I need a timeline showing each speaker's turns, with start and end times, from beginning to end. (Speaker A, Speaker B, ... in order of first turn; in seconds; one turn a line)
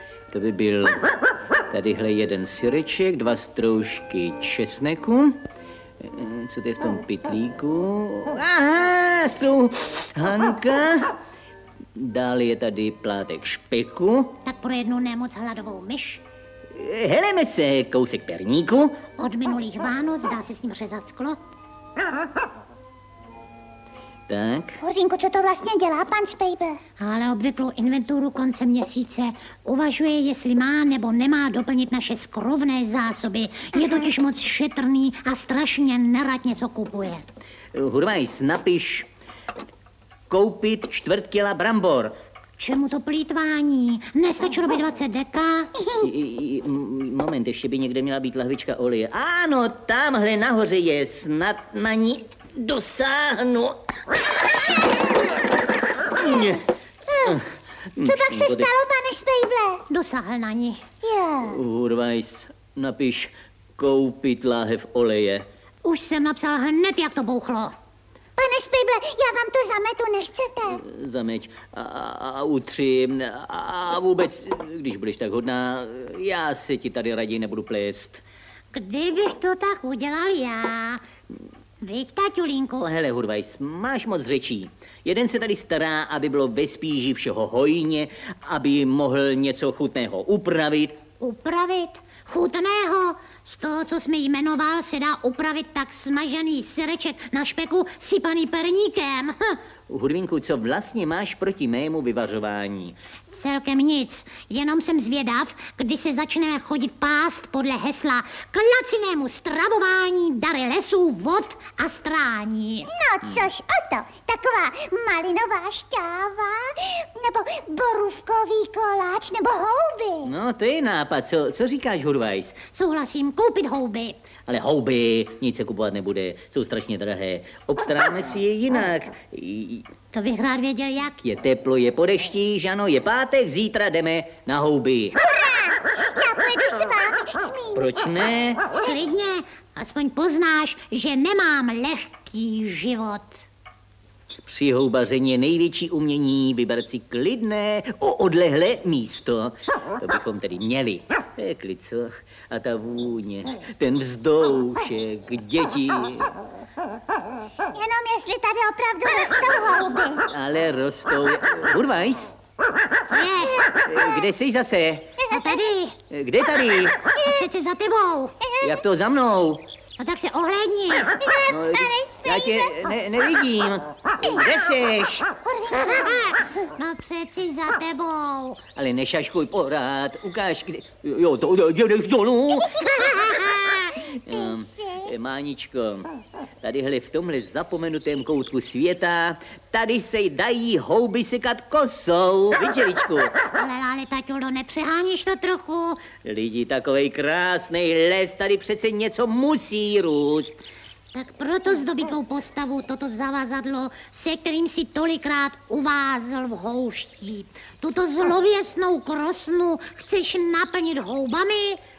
Speaker A: 0.3-1.1
Speaker A: 1.7-5.4
Speaker A: 6.0-11.1
Speaker A: 11.9-14.4
Speaker B: 14.4-16.2
Speaker A: 16.7-19.0
Speaker B: 19.1-21.4
Speaker A: 24.3-24.8
Speaker C: 24.8-26.8
Speaker B: 27.0-37.2
Speaker C: 33.8-34.0
Speaker A: 37.7-39.1
Speaker A: 40.3-42.1
Speaker B: 42.6-45.7
Speaker C: 45.8-46.1
Speaker A: 46.0-53.8
Speaker A: 56.1-56.6
Speaker C: 57.1-57.4
Speaker A: 57.2-58.7
Speaker C: 58.0-59.8
Speaker B: 59.9-60.8
Speaker C: 61.0-61.6
Speaker A: 61.5-65.4
Speaker B: 65.8-67.7
Speaker C: 68.4-70.8
Speaker A: 70.7-78.2
Speaker B: 78.7-81.0
Speaker B: 81.8-82.8
Speaker A: 82.8-91.0
Speaker B: 91.2-99.6
Speaker A: 99.9-103.0
Speaker B: 103.3-112.9
Speaker C: 112.9-120.3
Speaker A: 120.2-122.6
Speaker B: 122.7-124.2
Speaker A: 124.5-129.9
Speaker B: 130.1-131.2
Speaker A: 131.2-135.2
Speaker C: 135.1-137.9
Speaker A: 137.7-138.6
Speaker B: 138.8-143.4
Speaker A: 144.4-156.3
Speaker C: 157.7-160.2
Speaker A: 160.3-162.3
Speaker B: 163.1-163.6
Speaker A: 163.8-165.1
Speaker C: 165.2-165.6
Speaker B: 165.3-165.9
Speaker A: 166.1-167.0
Speaker C: 167.1-167.4
Speaker B: 167.2-168.3
Speaker C: 168.4-168.8
Speaker A: 168.6-169.7
Speaker B: 170.0-171.2
Speaker C: 171.2-172.9
Speaker A: 171.5-175.3
Speaker C: 175.4-176.3
Speaker B: 176.0-178.6
Speaker A: 178.7-183.3
Speaker C: 182.7-184.3
Speaker B: 182.9-183.9
Speaker A: 183.9-186.1
Speaker A: 186.6-193.4
Speaker B: 193.5-196.1
Speaker A: 196.2-200.6
Speaker B: 201.1-211.8